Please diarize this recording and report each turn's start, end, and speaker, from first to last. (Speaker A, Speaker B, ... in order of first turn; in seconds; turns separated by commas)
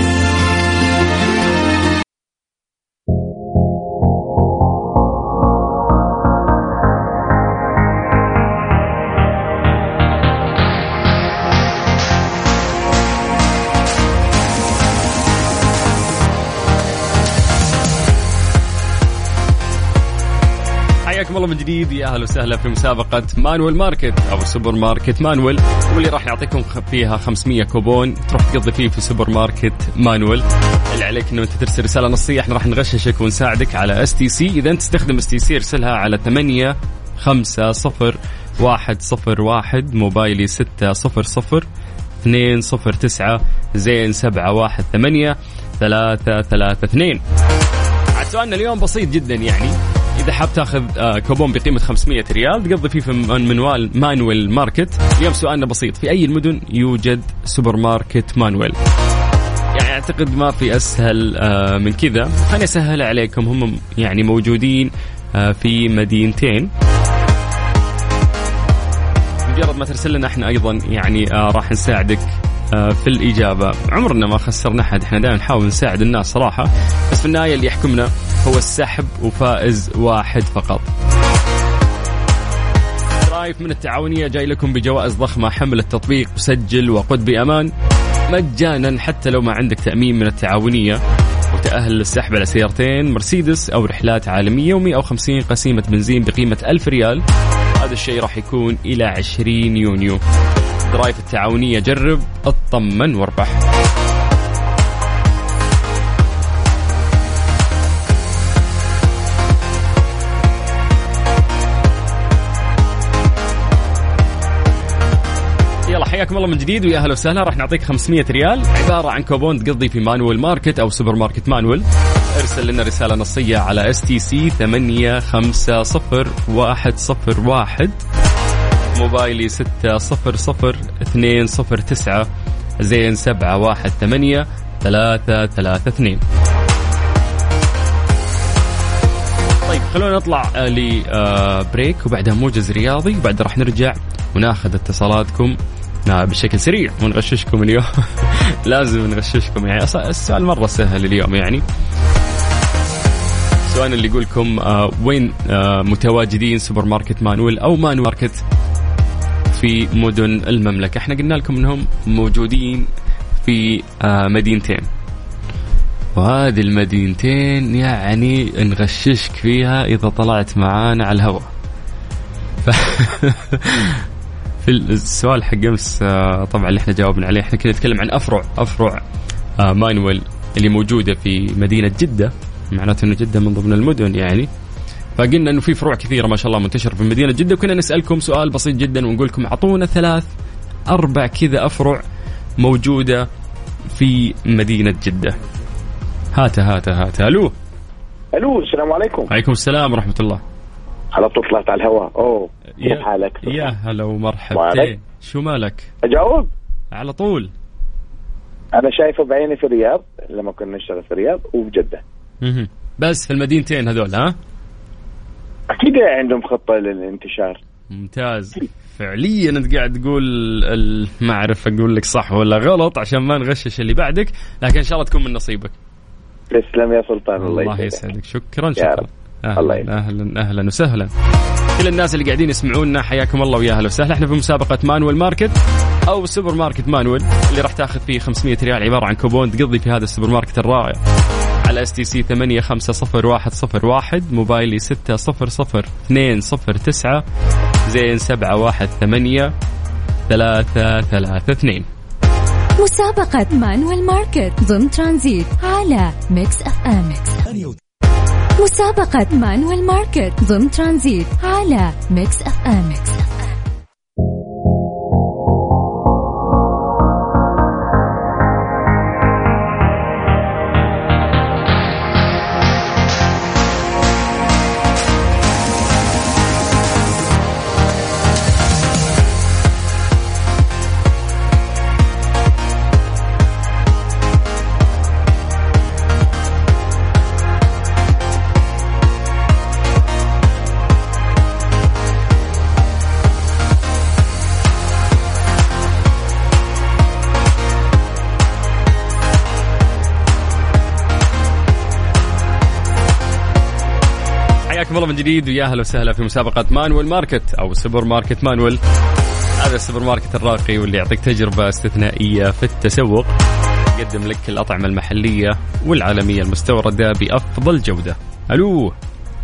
Speaker A: 21.1-41.7, Speaker A: 42.2-47.2, Speaker A: 48.2-58.8, Speaker A: 59.8-66.7, Speaker A: 69.5-80.9, Speaker A: 83.2-87.7, Speaker A: 88.3-91.0, Speaker A: 91.5-97.2, Speaker A: 97.8-100.2, Speaker A: 100.9-103.6, Speaker A: 115.9-128.0, Speaker A: 129.0-132.3, Speaker A: 132.8-136.2, Speaker A: 139.7-151.6, Speaker A: 153.7-158.4, Speaker A: 159.5-162.9, Speaker A: 163.4-164.9, Speaker A: 166.2-171.5, Speaker A: 172.7-174.0, Speaker A: 174.6-179.0, Speaker A: 179.6-184.5, Speaker A: 185.2-190.3, Speaker A: 190.9-192.0, Speaker A: 192.6-193.3, Speaker A: 193.9-195.4, Speaker A: 196.3-197.5, Speaker B: 198.3-199.3, Speaker A: 199.3-200.4, Speaker B: 201.1-203.6, Speaker A: 202.8-205.9, Speaker B: 204.5-204.9, Speaker B: 206.1-206.5, Speaker A: 206.9-207.5, Speaker B: 208.8-212.0, Speaker A: 212.4-214.4, Speaker B: 215.7-217.6, Speaker A: 217.9-225.7, Speaker B: 226.5-228.0, Speaker A: 227.4-231.1, Speaker B: 228.8-229.1, Speaker B: 229.6-229.9, Speaker A: 231.8-235.6, Speaker A: 236.1-241.0, Speaker A: 241.6-247.2, Speaker A: 247.9-249.5, Speaker A: 250.3-251.9, Speaker C: 252.8-257.6, Speaker C: 258.6-263.3, Speaker A: 304.7-308.8, Speaker A: 309.6-313.3, Speaker A: 313.9-318.9